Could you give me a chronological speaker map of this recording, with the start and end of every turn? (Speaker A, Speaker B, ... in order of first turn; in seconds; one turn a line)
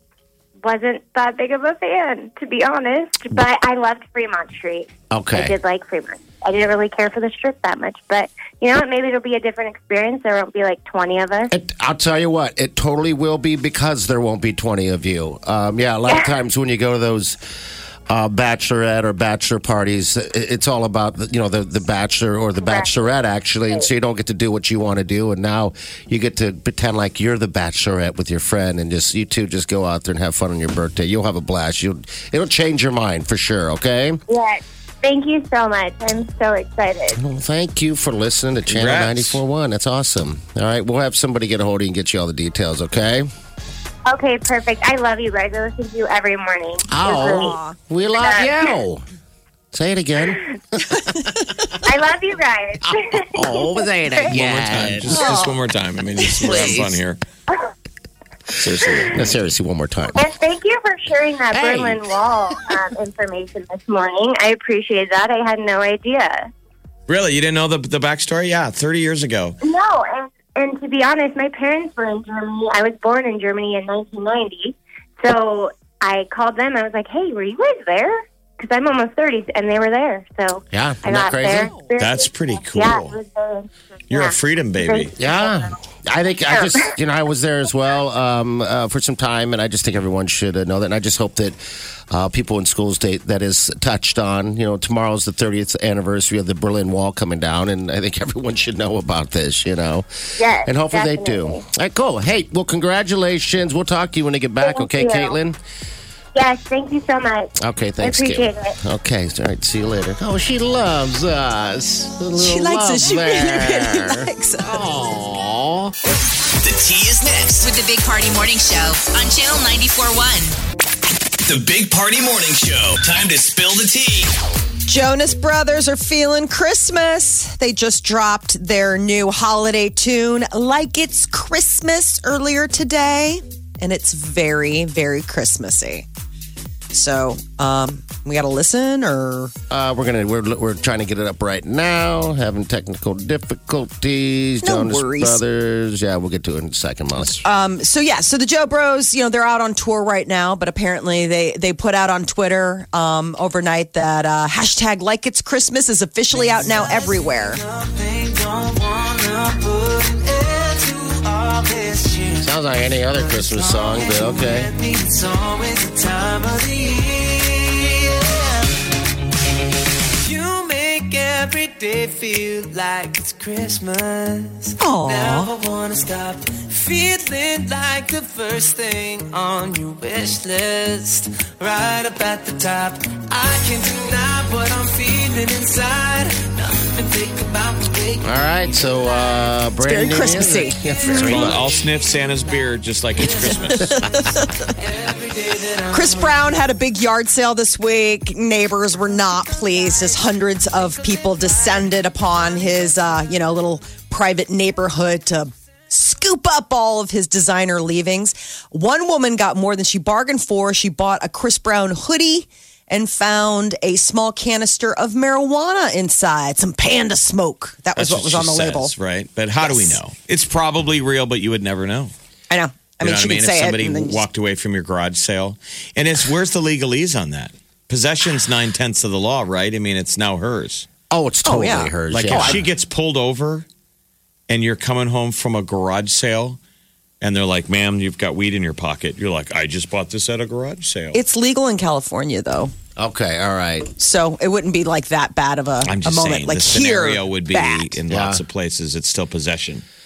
Speaker A: 0.6-11.5
Speaker B: 5.1-5.5
Speaker B: 11.5-17.4
Speaker B: 18.1-34.2
Speaker A: 22.6-23.9
Speaker A: 34.3-37.2
Speaker B: 37.1-43.3
Speaker C: 38.7-39.4
Speaker A: 44.1-47.6
Speaker B: 46.9-49.0
Speaker D: 47.1-47.8
Speaker A: 48.2-48.7
Speaker B: 49.7-50.5
Speaker D: 51.0-51.6
Speaker A: 51.9-54.5
Speaker B: 53.3-55.3
Speaker C: 54.3-57.2
Speaker D: 55.1-55.6
Speaker D: 56.2-56.7
Speaker B: 56.4-57.0
Speaker C: 58.6-59.3
Speaker B: 58.6-60.3
Speaker A: 60.2-66.5
Speaker B: 61.5-62.1
Speaker C: 67.1-69.6
Speaker A: 69.6-85.7
Speaker B: 80.7-81.7
Speaker C: 82.0-83.2
Speaker C: 84.1-85.1
Speaker B: 85.2-91.6
Speaker A: 86.5-86.9
Speaker B: 92.1-105.6
Speaker A: 100.4-101.6
Speaker A: 104.6-105.3
Speaker A: 106.3-108.8
Speaker B: 107.6-115.9
Speaker D: 112.3-114.9
Speaker E: 116.6-117.7
Speaker F: 117.6-120.6
Speaker E: 121.4-124.3
Speaker D: 124.9-136.1
Speaker D: 136.9-139.5
Speaker B: 139.7-147.4
Speaker D: 144.6-145.4
Speaker D: 147.4-157.6
Speaker G: 156.6-157.1
Speaker G: 157.7-162.5
Speaker B: 162.4-164.7
Speaker G: 163.1-168.4
Speaker G: 170.2-188.3
Speaker D: 174.8-175.5
Speaker B: 188.2-191.8
Speaker D: 189.8-191.6
Speaker C: 191.2-194.0
Speaker D: 193.8-194.7
Speaker G: 194.9-196.1
Speaker D: 195.9-218.9
Speaker C: 217.9-222.1
Speaker D: 219.6-220.0
Speaker D: 222.5-224.2
Speaker C: 223.0-230.9
Speaker B: 231.1-232.7
Speaker D: 231.4-232.6
Speaker C: 232.1-233.7
Speaker C: 234.5-236.6
Speaker C: 237.2-241.2
Speaker D: 241.1-242.7
Speaker B: 243.0-243.9
Speaker D: 244.0-248.0
Speaker C: 245.9-249.8
Speaker B: 248.1-248.4